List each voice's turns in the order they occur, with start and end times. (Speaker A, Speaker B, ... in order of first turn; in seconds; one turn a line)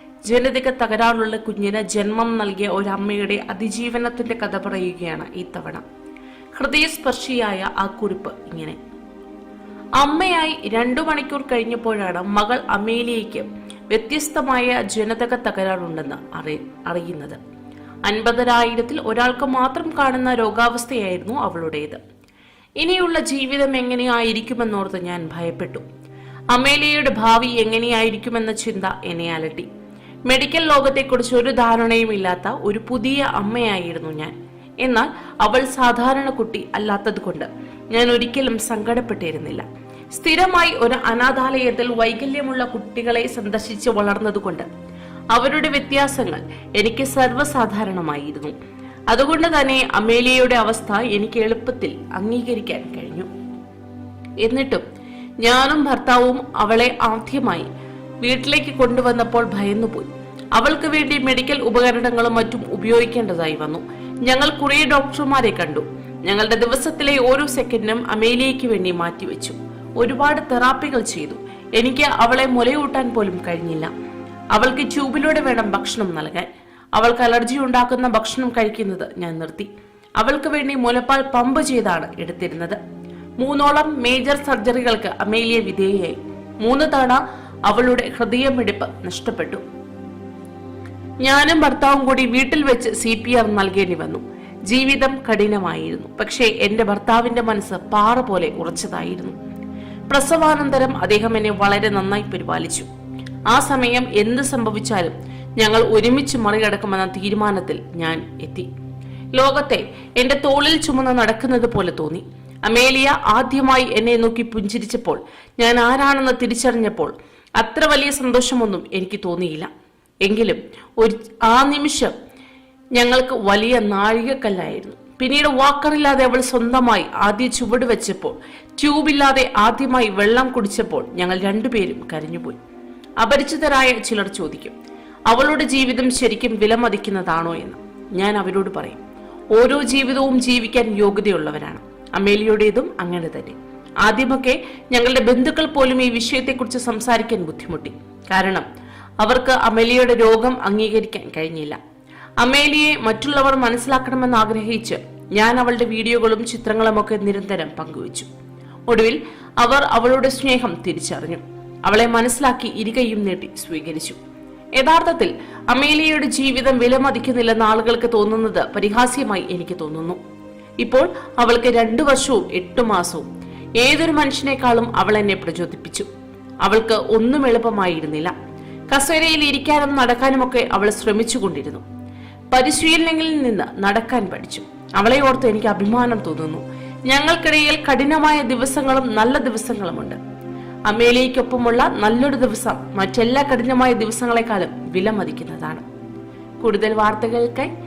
Speaker A: 0.2-5.8
Speaker A: 6.5-8.8
Speaker A: 10.0-17.4
Speaker A: 18.1-22.0
Speaker A: 22.8-25.8
Speaker A: 26.5-29.7
Speaker A: 30.3-44.7
Speaker A: 45.3-48.5
Speaker A: 49.1-53.3
Speaker A: 54.4-54.8
Speaker A: 55.4-57.7
Speaker A: 58.2-73.9
Speaker A: 74.5-82.8
Speaker A: 83.4-89.6
Speaker A: 91.2-99.3
Speaker A: 100.1-102.9
Speaker A: 103.5-108.7
Speaker A: 109.3-119.7
Speaker A: 120.2-122.1
Speaker A: 122.9-132.6
Speaker A: 133.2-134.7
Speaker A: 135.3-139.0
Speaker A: 139.5-148.6
Speaker A: 149.2-151.8
Speaker A: 152.4-158.3
Speaker A: 158.9-164.2
Speaker A: 164.8-170.2
Speaker A: 170.8-173.2
Speaker A: 173.8-176.1
Speaker A: 176.6-178.3
Speaker A: 178.9-181.8
Speaker A: 182.5-190.2
Speaker A: 190.9-195.8
Speaker A: 196.6-197.7